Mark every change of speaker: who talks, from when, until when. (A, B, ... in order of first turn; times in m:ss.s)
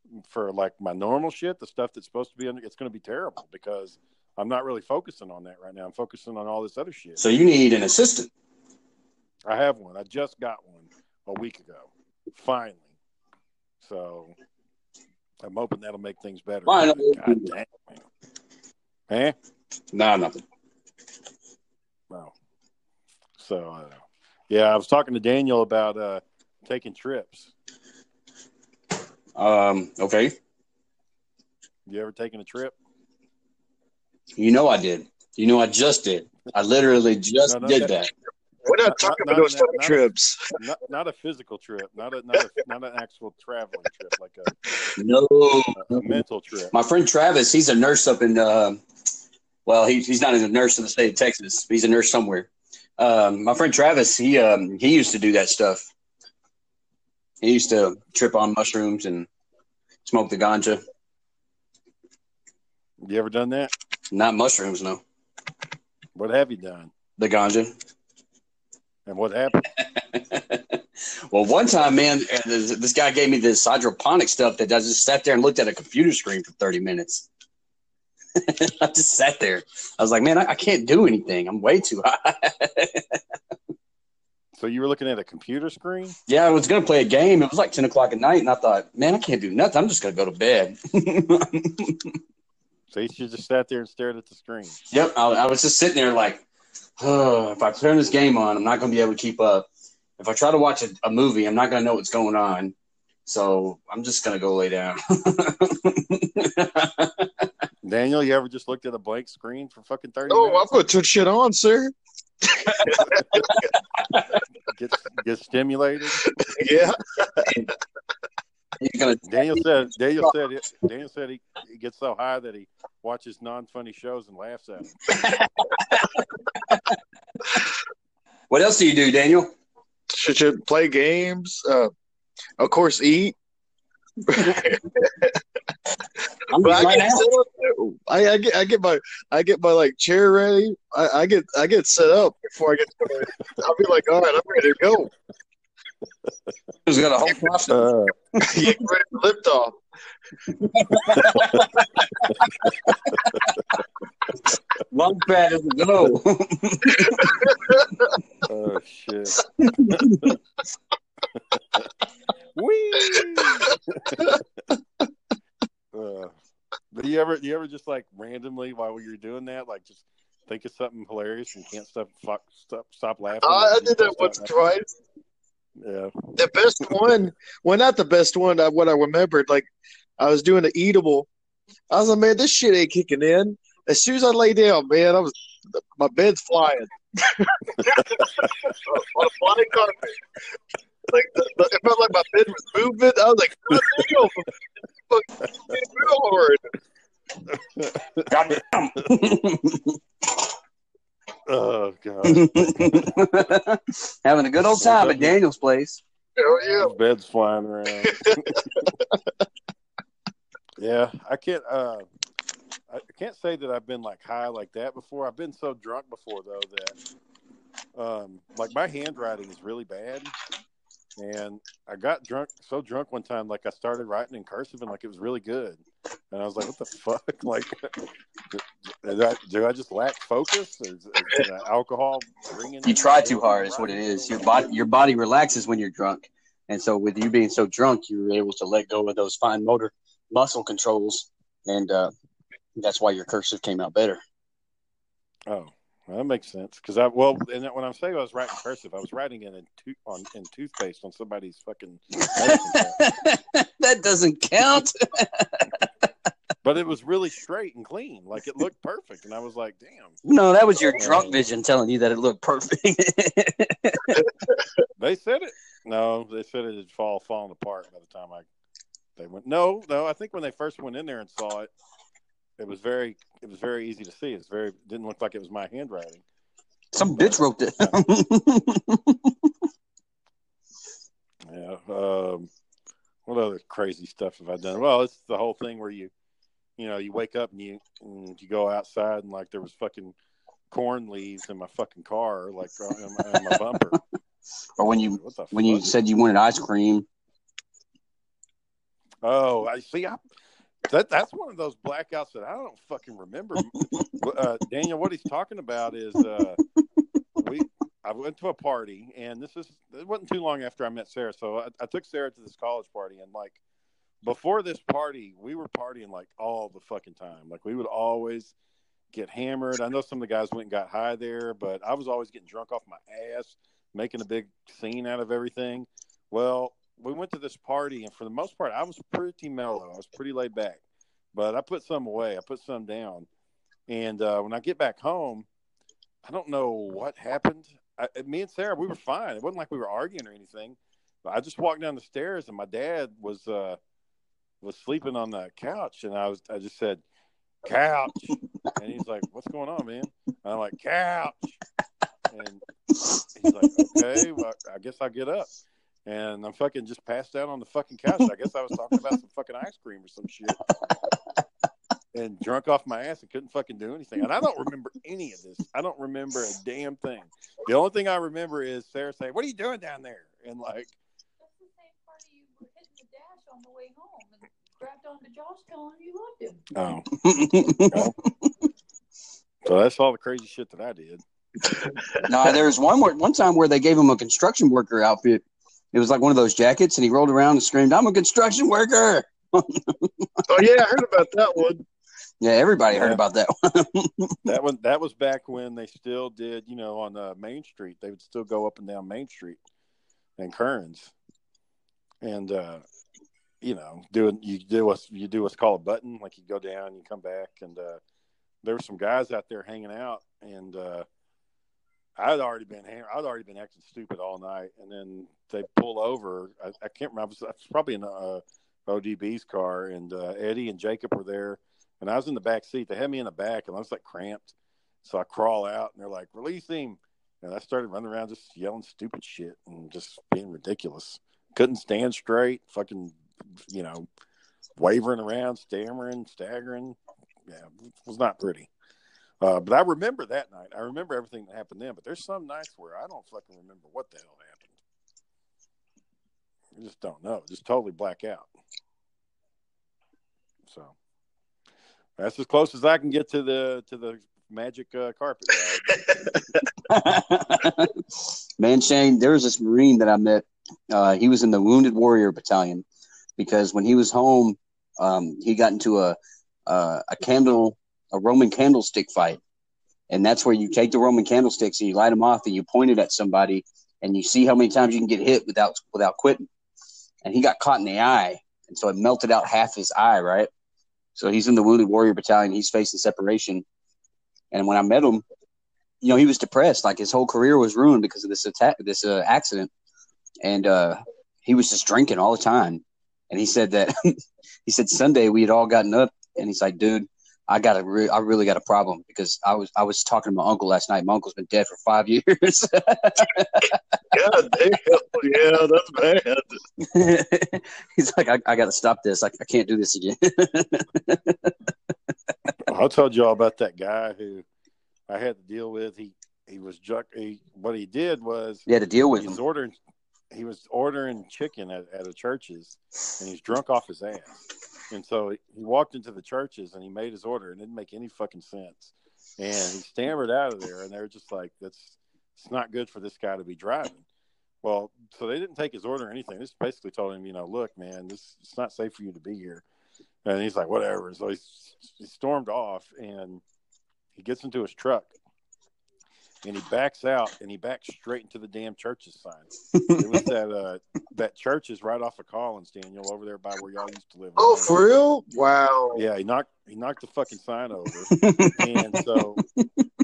0:00.2-0:07.2 A
0:07.2-0:08.3 B
0:09.4-0:12.9 A
0:13.8-0:14.3 A
0:15.4-0:18.0 A
0:16.7-0:17.5 B
0:19.1-0:19.4 A
0:19.9-0:20.4 B
0:23.4-0:24.0 A
0:24.5-0:27.5 A
0:29.4-0:30.4 B
0:31.9-0:32.7 A
0:34.4-0:38.1 B
0:37.5-0:37.9 A
0:38.6-0:40.5 C
0:38.8-0:40.0 A
0:40.6-0:44.5 A
0:45.0-0:46.2 B
0:45.8-0:46.7 A
0:46.7-0:48.8 B
0:49.7-0:55.9 B
0:57.4-0:59.3 B
1:00.0-1:00.8 B
1:03.0-1:03.7 A
1:04.1-1:05.0 B
1:06.2-1:06.9 A
1:07.2-1:07.7 B
1:09.1-1:09.7 A
1:10.1-1:10.8 B
1:11.3-1:17.2 B
1:18.4-1:23.2 B
1:24.6-1:26.2 A
1:26.3-1:32.2 B
1:32.9-1:34.8 A
1:34.9-1:36.4 B
1:37.0-1:39.7 B
1:40.2-1:42.7 B
1:43.2-1:47.4 B
1:47.8-1:50.7 A
1:50.3-1:53.6 C
1:52.9-1:53.4 A
1:54.7-1:56.2 A
1:56.4-1:57.7 C
1:58.8-1:59.6 B
1:59.2-2:05.0 A
2:05.1-2:06.8 B
2:08.5-2:09.5 B
2:10.1-2:11.9 C
2:12.6-2:13.4 C
2:14.2-2:15.4 C
2:16.5-2:17.3 B
2:16.6-2:25.1 C
2:26.8-2:27.9 B
2:27.7-2:28.1 A
2:28.4-2:29.8 C
2:30.6-2:32.3 B
2:34.9-2:37.4 B
2:37.2-2:37.8 C
2:38.4-2:40.1 A
2:39.6-2:40.3 B
2:42.6-2:44.3 A
2:45.9-2:46.3 A
2:46.9-2:54.5 A
2:53.4-2:54.9 C
2:55.8-2:56.4 A
2:56.4-3:01.3 C
3:01.9-3:10.2 C
3:11.1-3:14.5 C
3:15.1-3:16.7 C
3:17.5-3:18.3 A
3:18.3-3:20.0 B
3:21.5-3:23.0 A
3:22.3-3:26.0 B
3:24.8-3:25.4 A
3:26.4-3:26.9 C
3:26.7-3:28.6 A
3:28.0-3:29.2 C
3:30.8-3:32.1 A
3:32.9-3:37.0 A
3:37.9-3:40.3 A
3:41.2-3:47.9 A
3:48.5-3:54.7 A
3:52.8-4:02.1 B
4:02.8-4:04.2 B
4:05.5-4:13.0 A
4:12.2-4:15.7 B
4:16.6-4:20.2 A
4:20.2-4:24.2 B
4:21.0-4:21.4 A
4:25.0-4:28.4 A
4:29.2-4:31.7 A
4:32.6-4:36.2 A
4:36.9-4:39.5 B
4:37.2-4:38.0 A
4:41.5-4:42.5 A
4:43.3-4:46.1 A
4:46.8-4:50.1 A
4:50.7-4:54.0 A
4:54.8-4:57.0 B
4:55.1-4:55.8 A
4:59.2-5:00.2 A
5:00.8-5:06.6 A
5:07.4-5:13.6 A
5:14.2-5:18.5 A
5:19.1-5:30.8 A
5:31.3-5:33.3 A
5:33.9-5:35.4 A
5:36.2-5:43.8 A
5:44.6-5:47.0 A
5:47.6-5:51.6 A
5:52.3-5:52.6 A
5:53.3-5:55.5 A
5:56.1-6:00.6 A
6:02.1-6:10.9 A
6:11.4-6:16.7 D
6:16.7-6:17.1 A
6:17.2-6:18.5 B
6:19.6-6:21.2 A
6:22.3-6:30.2 B
6:30.5-6:31.8 C
6:32.4-6:34.3 B
6:32.9-6:33.2 A
6:34.4-6:39.6 A
6:40.4-6:41.1 A
6:42.2-6:42.8 A
6:43.6-6:48.0 A
6:48.6-6:51.1 A
6:52.2-7:04.5 A
7:05.0-7:13.2 A
7:13.7-7:14.1 A
7:14.8-7:18.7 A
7:19.4-7:24.8 A
7:26.8-7:28.5 A
7:30.7-7:30.9 A
7:32.2-7:36.1 A
7:36.1-7:36.3 C
7:36.9-7:37.9 B
7:38.6-7:42.8 B
7:43.4-7:49.4 B
7:50.1-7:56.5 B
7:57.2-8:00.5 B
8:01.2-8:03.6 B
8:04.5-8:05.2 B
8:06.0-8:09.7 B
8:10.4-8:14.2 B
8:14.7-8:23.8 B
8:24.1-8:26.6 C
8:26.8-8:31.6 B
8:32.6-8:34.4 A
8:35.1-8:38.7 A
8:38.7-8:39.4 B
8:39.2-8:39.8 A
8:40.3-8:54.0 A
8:54.6-8:59.6 A
9:00.2-9:03.4 A
9:04.1-9:05.1 A
9:06.4-9:14.8 A
9:09.7-9:10.2 B
9:14.4-9:16.0 C
9:15.9-9:19.4 A
9:18.1-9:18.6 B
9:19.6-9:19.8 B